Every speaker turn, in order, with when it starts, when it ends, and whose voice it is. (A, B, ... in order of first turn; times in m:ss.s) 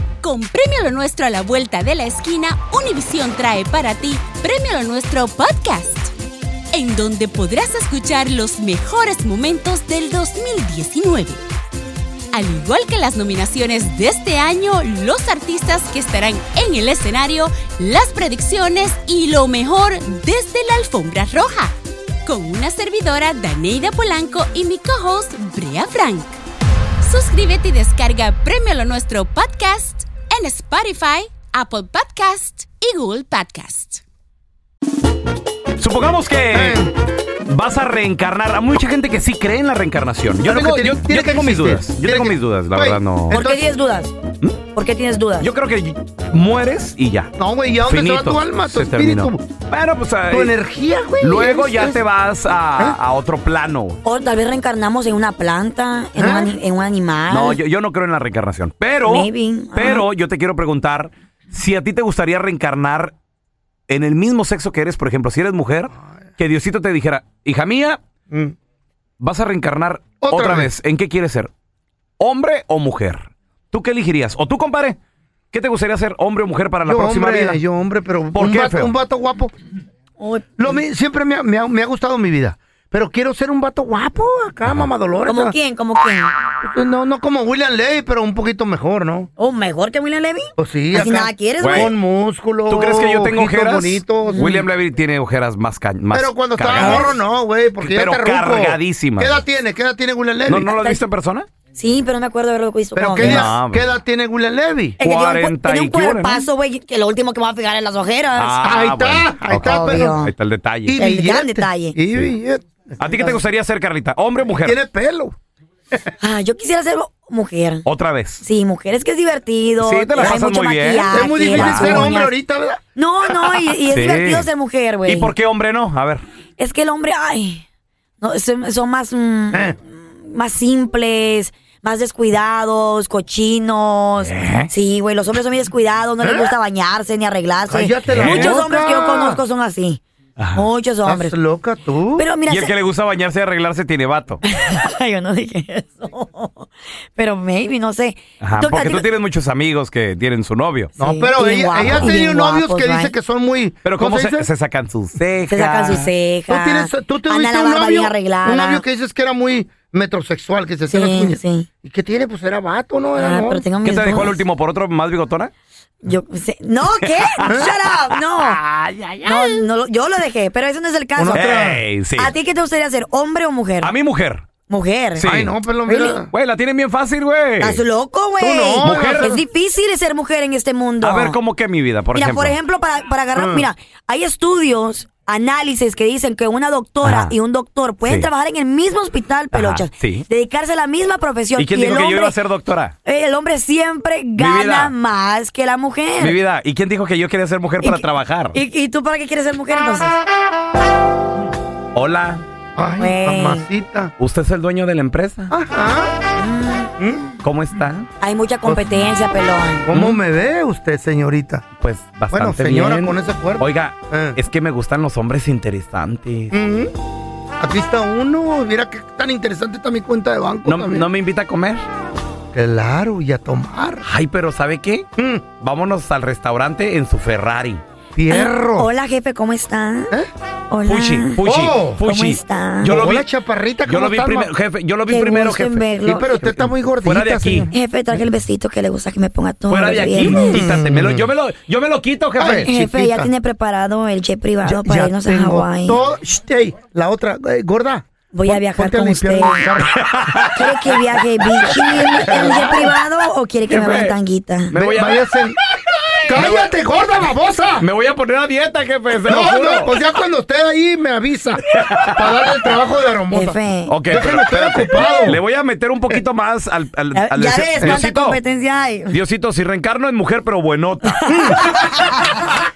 0:00.2-0:06.1 A
0:06.7-0:11.4 A
0:12.3-0:21.7 A
0:22.3-0:26.4 A
0:27.0-0:34.0 A
0:35.8-0:36.8 B
0:36.5-0:36.9 C
0:37.5-0:43.4 B
0:40.4-0:43.6 C
0:43.3-0:44.1 D
0:44.7-0:45.5 D
0:45.4-0:47.3 B
0:47.4-0:49.5 C
0:47.9-0:50.5 B
0:50.3-0:52.0 C
0:51.2-0:54.0 B
0:54.0-0:57.6 D
0:56.2-0:56.5 C
0:57.3-1:03.1 B
0:59.0-1:00.1 D
1:03.9-1:08.0 B
1:05.9-1:06.3 C
1:08.3-1:08.5 C
1:09.2-1:11.5 B
1:10.2-1:10.7 C
1:12.2-1:15.0 B
1:15.5-1:17.6 B
1:16.8-1:19.5 C
1:18.3-1:18.9 B
1:20.2-1:20.7 D
1:20.6-1:25.6 C
1:25.2-1:26.3 D
1:26.6-1:29.3 C
1:29.4-1:31.9 D
1:30.6-1:34.5 C
1:31.6-1:31.9 B
1:32.7-1:37.1 B
1:34.3-1:34.7 D
1:36.1-1:40.8 C
1:36.7-1:37.2 D
1:37.8-1:39.4 B
1:40.5-1:41.5 B
1:40.7-1:41.0 D
1:41.8-1:43.5 D
1:42.9-1:45.0 C
1:43.2-1:43.8 B
1:45.0-1:48.6 D
1:45.0-1:46.4 B
1:48.3-1:51.0 B
1:48.6-1:50.2 C
1:49.5-1:50.3 D
1:50.8-1:52.9 C
1:51.0-1:52.0 D
1:53.0-1:54.8 B
1:53.0-1:53.4 D
1:54.6-1:55.4 C
1:56.2-1:57.9 D
1:57.8-1:58.4 B
1:58.4-2:02.3 D
1:59.8-2:02.1 B
2:01.1-2:02.8 C
2:03.0-2:05.3 D
2:03.9-2:04.5 B
2:05.1-2:06.2 B
2:06.6-2:07.6 D
2:08.2-2:20.0 D
2:14.2-2:14.7 B
2:16.2-2:16.5 C
2:17.7-2:19.4 C
2:18.1-2:18.6 B
2:20.4-2:20.6 B
2:20.5-2:21.3 D
2:21.0-2:22.3 C
2:22.2-2:22.7 D
2:22.5-2:24.4 B
2:24.4-2:29.1 D
2:28.4-2:30.9 B
2:31.0-2:33.1 D
2:31.0-2:34.5 C
2:33.8-2:36.1 B
2:35.5-2:38.8 D
2:36.5-2:43.6 C
2:40.9-2:41.7 D
2:43.2-2:44.4 D
2:43.8-2:45.5 B
2:46.0-2:48.6 D
2:46.9-2:49.6 B
2:49.2-2:51.6 D
2:51.2-2:51.8 C
2:51.3-2:52.3 B
2:52.1-2:53.9 D
2:53.8-2:54.5 B
2:54.7-2:55.3 D
2:55.2-2:55.6 B
2:55.2-2:56.3 C
2:55.9-2:56.2 D
2:56.3-2:57.8 B
2:57.6-3:01.4 D
2:58.4-2:59.4 C
2:58.8-2:59.3 B
3:01.0-3:02.6 B
3:02.1-3:12.4 D
3:03.4-3:03.7 C
3:07.0-3:07.4 B
3:08.0-3:08.3 B
3:09.5-3:10.2 B
3:11.6-3:12.9 B
3:13.0-3:16.4 D
3:14.4-3:14.9 B
3:16.2-3:18.6 B
3:17.8-3:20.2 D
3:21.9-3:22.4 B
3:22.8-3:24.1 C
3:23.0-3:23.7 D
3:24.2-3:25.5 B
3:25.5-3:26.1 C
3:26.4-3:26.9 D
3:27.0-3:27.3 C
3:27.4-3:28.1 B
3:28.2-3:29.9 D
3:28.6-3:28.9 C
3:29.9-3:31.6 C
3:29.9-3:30.2 B
3:31.8-3:36.5 B
3:32.3-3:34.4 C
3:36.5-3:36.9 C
3:37.6-3:41.1 C
3:40.6-3:41.9 B
3:42.5-3:44.0 C
3:44.0-3:47.8 B
3:45.2-3:45.4 C
3:48.1-3:48.9 C
3:48.3-3:50.1 D
3:50.7-3:51.4 D
3:50.8-3:53.2 B
3:51.4-3:52.0 C
3:52.0-3:53.0 D
3:52.8-3:54.5 C
3:53.9-3:57.7 B
3:55.1-3:56.3 D
3:56.1-3:57.7 C
3:57.7-4:00.7 D
3:59.7-4:02.9 B
4:00.5-4:01.2 C
4:02.4-4:03.3 C
4:02.5-4:06.0 D
4:04.6-4:09.9 C
4:08.3-4:09.7 D
4:09.9-4:11.0 B
4:10.6-4:14.7 D
4:11.7-4:12.8 C
4:12.4-4:12.8 B
4:13.7-4:14.2 B
4:14.7-4:15.3 B
4:14.7-4:15.6 C
4:16.2-4:17.9 C
4:16.3-4:16.7 B
4:17.8-4:19.9 B
4:19.2-4:25.4 C
4:21.7-4:22.2 B
4:23.3-4:24.0 D
4:23.9-4:28.4 B
4:27.1-4:29.2 D
4:29.1-4:31.2 B
4:31.0-4:32.4 D
4:31.3-4:31.9 C